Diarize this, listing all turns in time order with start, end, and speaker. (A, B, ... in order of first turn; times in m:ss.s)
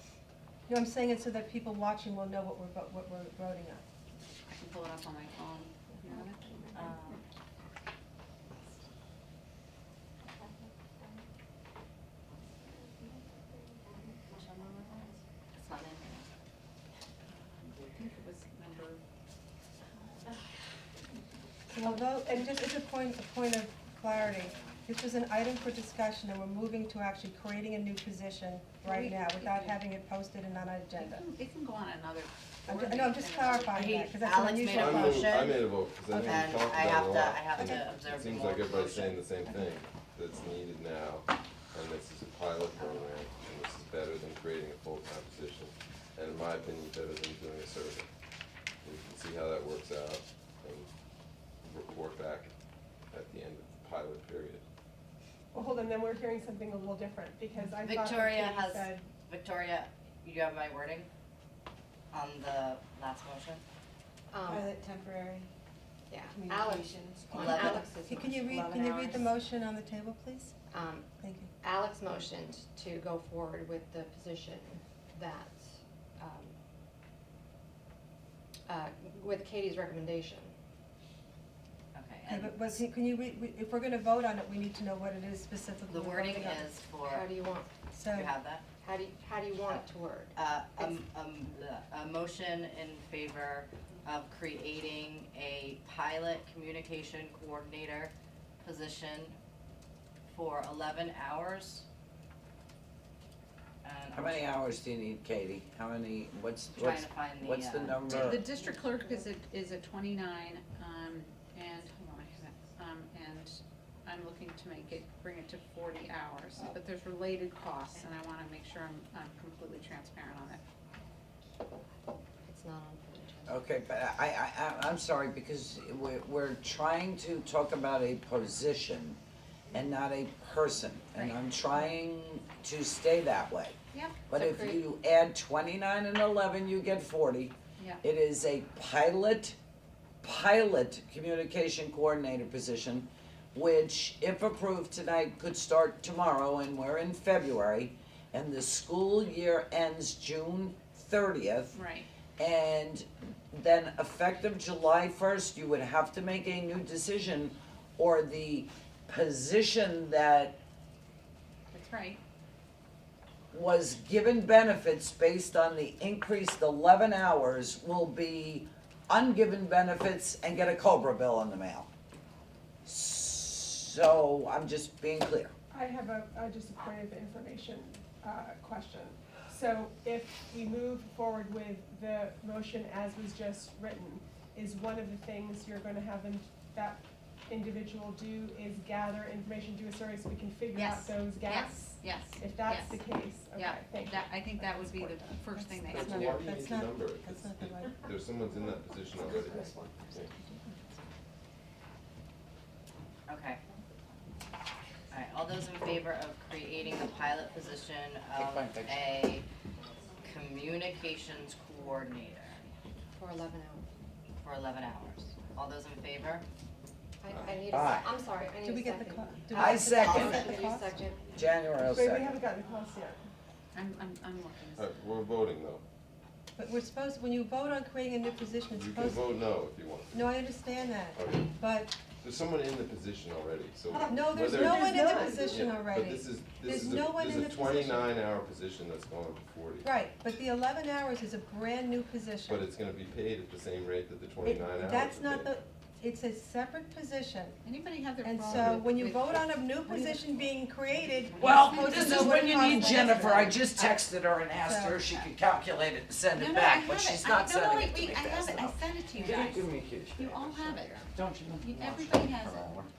0:00.7-0:03.8 A
0:04.5-0:07.2 B
0:06.7-0:07.2 C
0:14.3-0:16.3 C
0:17.3-0:19.0 B
0:21.7-0:31.3 A
0:22.0-0:22.5 D
0:28.8-0:29.8 B
0:31.0-0:34.0 B
0:32.7-0:35.5 A
0:33.7-0:39.3 C
0:34.7-0:48.1 E
0:36.1-0:36.5 A
0:37.6-0:37.8 A
0:39.4-0:39.7 A
0:42.8-0:43.1 C
0:48.8-0:50.9 E
0:51.6-0:52.5 E
0:53.1-0:54.6 E
0:55.5-0:59.0 D
0:57.8-1:01.1 C
1:02.1-1:03.6 C
1:04.3-1:04.7 F
1:04.5-1:05.5 G
1:06.1-1:09.2 F
1:06.3-1:09.2 G
1:07.3-1:07.8 C
1:07.5-1:10.6 A
1:10.7-1:16.6 F
1:11.2-1:11.5 A
1:18.7-1:20.5 F
1:21.9-1:22.6 C
1:22.3-1:26.7 A
1:25.9-1:27.3 C
1:27.0-1:27.8 F
1:27.8-1:28.4 A
1:28.1-1:28.6 C
1:28.8-1:31.0 F
1:30.4-1:39.4 C
1:40.3-1:41.8 C
1:43.8-1:44.5 C
1:44.1-1:48.4 H
1:46.8-1:48.4 C
1:48.1-2:00.6 B
2:02.4-2:03.6 F
2:03.5-2:09.2 H
2:09.7-2:13.8 H
2:11.1-2:11.4 B
2:14.3-2:19.6 H
2:14.3-2:14.8 F
2:20.2-2:31.8 H
2:31.7-2:32.1 B
2:32.4-2:40.6 H
2:41.7-2:42.2 B
2:43.5-2:51.9 H
2:52.9-2:55.5 H
2:55.7-3:15.3 D
3:10.7-3:16.2 B
3:15.5-3:18.2 A
3:15.9-3:20.3 E
3:20.1-3:20.8 A
3:23.3-3:23.6 C
3:25.1-3:29.5 C
3:28.4-3:29.0 H
3:30.2-3:32.6 C
3:33.2-3:33.9 F
3:34.4-3:36.5 C
3:37.2-3:41.3 F
3:37.3-3:37.6 E
3:37.7-3:38.1 H
3:38.6-3:40.9 A
3:39.6-3:40.5 H
3:41.3-3:42.4 H
3:41.9-3:43.2 D
3:43.7-3:44.9 B
3:44.8-3:45.8 E
3:46.6-3:49.4 A
3:48.7-3:50.4 E
3:50.1-3:51.9 A
3:51.2-3:51.5 E
3:52.2-3:54.8 E
3:53.9-3:55.6 D
3:54.1-3:58.2 A
3:55.4-3:59.9 E
3:59.8-4:02.7 A
4:02.5-4:05.6 E
4:04.4-4:07.6 A
4:07.6-4:10.4 B
4:08.2-4:14.0 A
4:08.5-4:09.3 E
4:10.9-4:13.5 B
4:11.4-4:22.9 H
4:14.6-4:15.1 A
4:16.4-4:21.1 B
4:21.6-4:22.7 B